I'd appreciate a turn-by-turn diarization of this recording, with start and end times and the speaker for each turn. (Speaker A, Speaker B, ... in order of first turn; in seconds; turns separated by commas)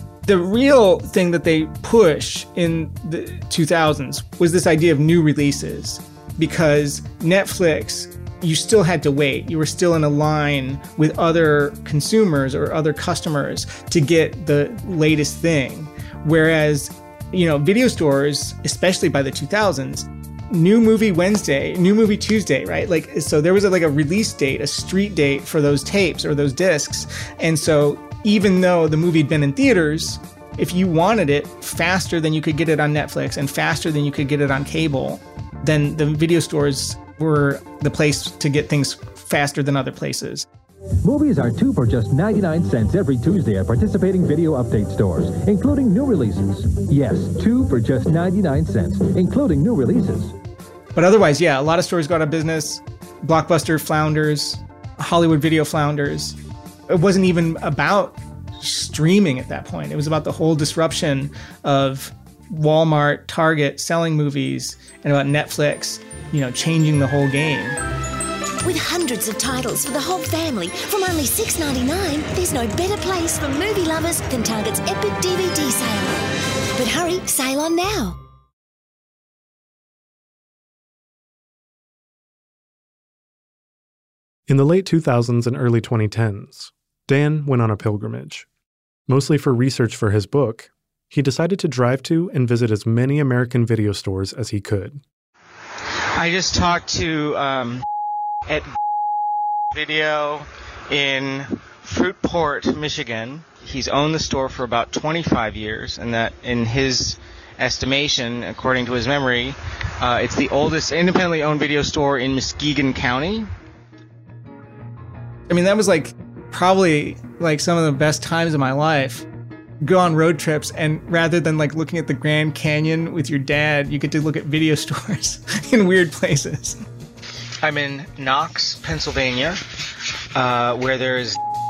Speaker A: 0.3-40.5, Speaker B: 41.0-50.3, Speaker A: 51.0-56.4, Speaker A: 56.9-67.8, Speaker C: 68.6-76.2, Speaker C: 76.8-78.2, Speaker D: 84.5-88.5, Speaker D: 89.1-95.0, Speaker E: 96.2-97.8, Speaker E: 99.7-113.5, Speaker A: 115.5-119.3, Speaker A: 119.8-126.8, Speaker E: 127.6-129.6, Speaker E: 130.3-131.4